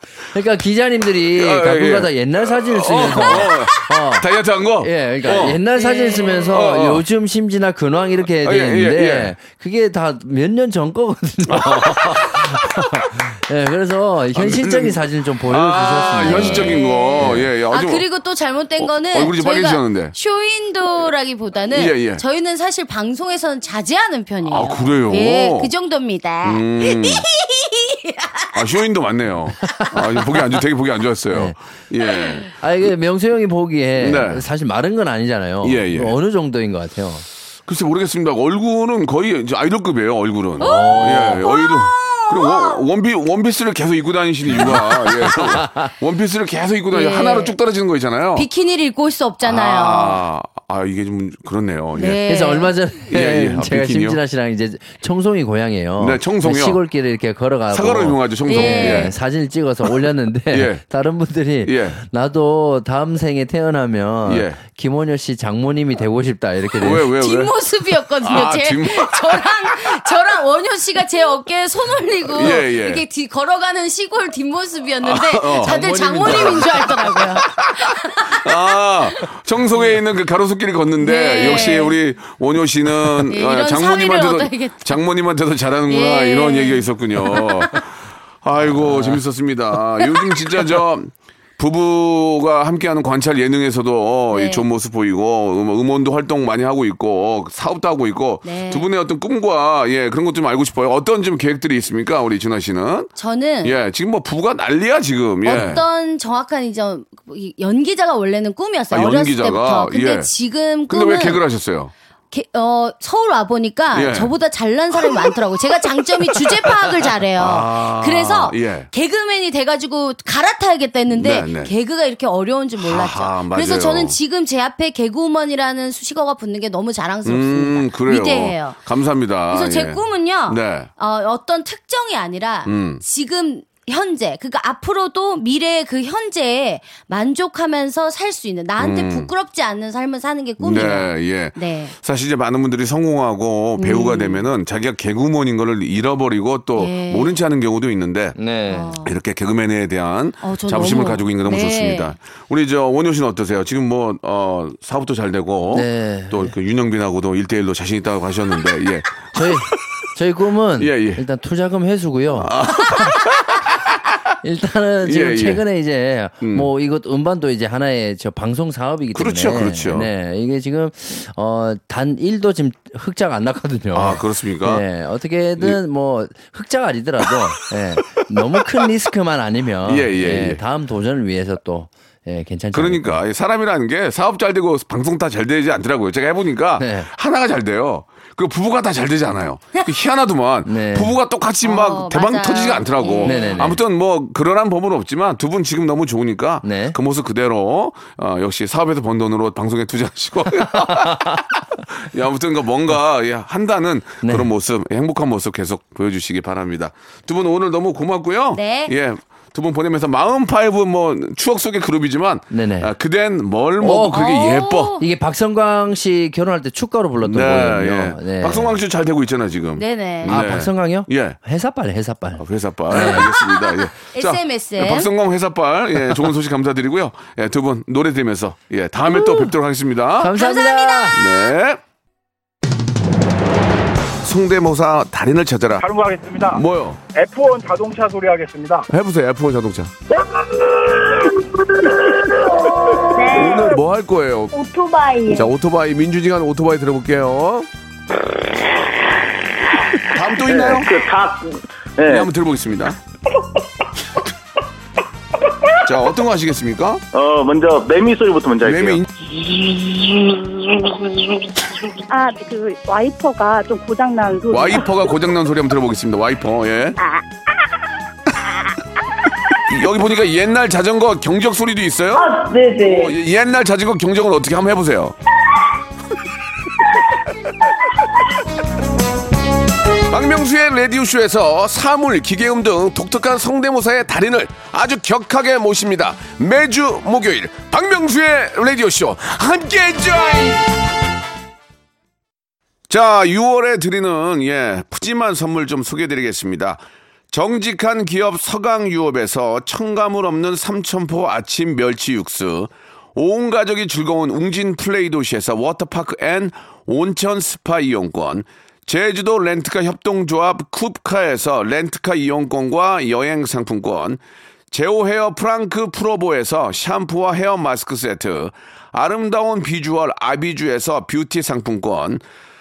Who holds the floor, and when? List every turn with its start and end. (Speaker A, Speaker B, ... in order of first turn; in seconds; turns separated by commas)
Speaker A: 0.3-4.3, Speaker B: 1.3-5.6, Speaker A: 4.8-17.5, Speaker C: 5.8-6.5, Speaker B: 6.5-7.0, Speaker B: 8.4-9.3, Speaker B: 11.5-12.7, Speaker B: 14.3-18.1, Speaker C: 16.2-28.6, Speaker B: 18.8-20.1, Speaker B: 21.7-22.2, Speaker B: 24.4-25.7, Speaker B: 26.4-27.2, Speaker B: 28.5-32.5, Speaker A: 29.8-30.4, Speaker A: 31.3-31.6, Speaker A: 32.5-37.2, Speaker B: 34.0-34.4, Speaker B: 35.6-36.1, Speaker B: 37.6-48.5, Speaker A: 40.6-41.4, Speaker C: 40.6-42.8, Speaker A: 44.5-45.9, Speaker C: 46.9-47.5, Speaker C: 48.3-50.2, Speaker B: 49.4-52.2, Speaker C: 51.9-52.7, Speaker A: 52.3-67.1, Speaker B: 53.1-54.2, Speaker B: 56.0-56.8, Speaker B: 57.7-59.1, Speaker C: 58.5-59.1, Speaker B: 60.5-60.8, Speaker B: 61.6-62.0, Speaker B: 64.2-64.6, Speaker B: 66.8-67.5, Speaker C: 67.0-78.5, Speaker B: 68.2-70.0, Speaker B: 72.3-73.0, Speaker B: 75.0-103.1, Speaker A: 75.6-76.7, Speaker C: 81.0-82.0, Speaker C: 83.3-85.0, Speaker C: 85.9-87.5, Speaker A: 88.8-89.2, Speaker C: 94.3-94.6, Speaker C: 98.4-98.9, Speaker C: 103.2-103.8, Speaker B: 103.6-105.8, Speaker C: 105.4-111.4, Speaker B: 108.9-110.3, Speaker B: 110.9-111.9, Speaker C: 112.3-128.8, Speaker B: 113.9-114.3, Speaker B: 116.6-118.9, Speaker B: 121.1-121.7, Speaker B: 122.8-124.2, Speaker B: 127.2-130.9, Speaker C: 129.5-141.9, Speaker B: 132.7-133.0, Speaker B: 138.8-139.3, Speaker B: 140.6-148.4, Speaker C: 143.8-144.4, Speaker C: 146.8-147.3, Speaker A: 148.4-148.9, Speaker C: 148.7-149.1, Speaker B: 149.0-159.8, Speaker C: 150.4-152.1, Speaker A: 155.7-156.5, Speaker A: 159.3-163.1, Speaker B: 160.8-161.2, Speaker B: 162.4-163.6, Speaker A: 164.4-183.2, Speaker B: 165.0-165.6, Speaker B: 166.4-166.7, Speaker B: 169.1-170.1, Speaker B: 173.9-174.8, Speaker B: 179.8-180.6, Speaker B: 182.7-214.9, Speaker A: 186.8-187.1, Speaker A: 190.7-191.2, Speaker C: 191.6-193.6, Speaker A: 193.2-193.8, Speaker A: 196.6-197.0, Speaker A: 200.8-201.4, Speaker A: 204.2-204.5, Speaker C: 208.5-208.9, Speaker A: 212.5-212.9, Speaker A: 213.8-214.3, Speaker C: 214.1-215.1, Speaker A: 215.0-218.8, Speaker B: 217.2-221.4, Speaker C: 219.8-220.4, Speaker A: 220.2-223.3, Speaker B: 222.4-230.3, Speaker C: 223.2-225.1, Speaker A: 229.1-229.5, Speaker A: 230.2-231.2, Speaker C: 230.4-231.1, Speaker B: 231.1-231.8, Speaker B: 234.2-235.9, Speaker D: 235.8-236.6, Speaker B: 236.5-237.0, Speaker D: 237.1-238.9, Speaker B: 238.9-239.9, Speaker E: 240.2-241.3, Speaker E: 242.9-243.8, Speaker B: 243.3-244.5, Speaker E: 244.5-245.5, Speaker B: 245.3-247.7, Speaker B: 250.0-250.9, Speaker F: 250.4-252.3, Speaker B: 252.1-253.0, Speaker B: 255.8-257.0, Speaker F: 257.1-260.4, Speaker B: 258.6-259.1, Speaker E: 262.1-265.1, Speaker B: 264.5-267.0, Speaker B: 269.6-275.1, Speaker E: 272.1-273.1, Speaker B: 280.1-290.7, Speaker B: 292.9-314.2, Speaker B: 314.7-322.2